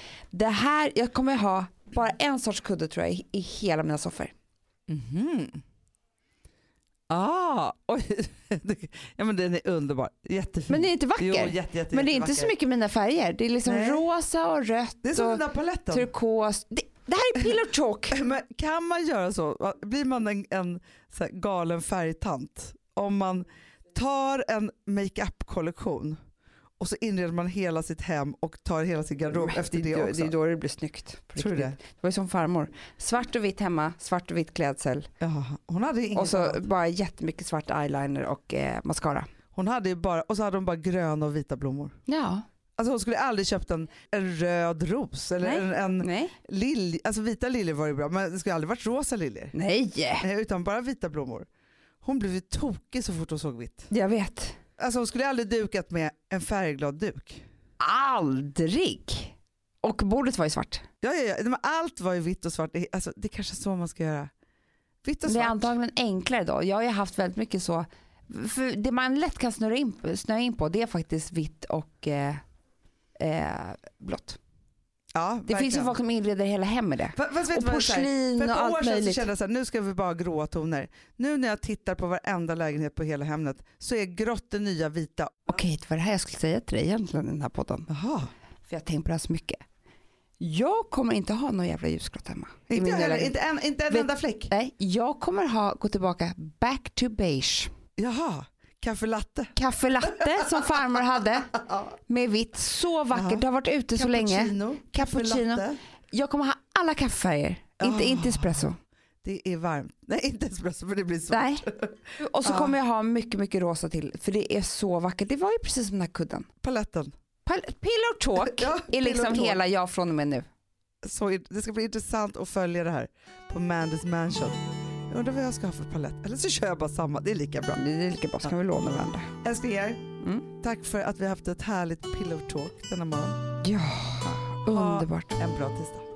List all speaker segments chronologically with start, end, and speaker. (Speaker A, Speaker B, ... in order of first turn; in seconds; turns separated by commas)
Speaker A: 0.3-4.3, Speaker B: 4.9-5.6, Speaker B: 7.1-12.5, Speaker A: 10.7-18.2, Speaker B: 13.6-14.0, Speaker B: 15.0-16.1, Speaker B: 18.1-26.2, Speaker B: 26.8-30.3, Speaker A: 29.3-35.1, Speaker B: 31.4-31.8, Speaker B: 35.2-36.6, Speaker A: 36.1-39.3, Speaker B: 39.5-41.9, Speaker A: 42.1-42.4, Speaker B: 42.8-49.5, Speaker A: 45.4-46.3, Speaker A: 49.5-50.3, Speaker B: 50.2-51.5, Speaker B: 52.0-53.9, Speaker A: 53.9-54.6, Speaker B: 54.8-57.4, Speaker A: 57.8-60.8, Speaker B: 61.0-64.3, Speaker B: 65.0-65.7, Speaker A: 65.2-72.4, Speaker A: 73.2-74.4, Speaker B: 75.1-76.0, Speaker A: 75.5-79.2, Speaker B: 77.1-85.5, Speaker A: 85.5-87.9, Speaker B: 87.9-88.3, Speaker A: 88.7-89.6, Speaker A: 90.4-93.4, Speaker B: 92.7-94.5, Speaker A: 93.9-97.7, Speaker B: 98.0-99.5, Speaker A: 99.5-108.8, Speaker B: 100.2-100.6, Speaker B: 103.1-105.8, Speaker B: 107.8-108.7, Speaker B: 109.2-112.7, Speaker A: 111.3-111.7, Speaker A: 112.2-116.5, Speaker B: 116.6-117.1, Speaker A: 117.4-120.5, Speaker B: 118.4-119.6, Speaker B: 121.0-127.8, Speaker A: 127.7-129.3, Speaker B: 129.4-130.0, Speaker A: 130.2-130.5, Speaker B: 130.6-133.4, Speaker A: 133.6-135.4, Speaker B: 134.7-136.0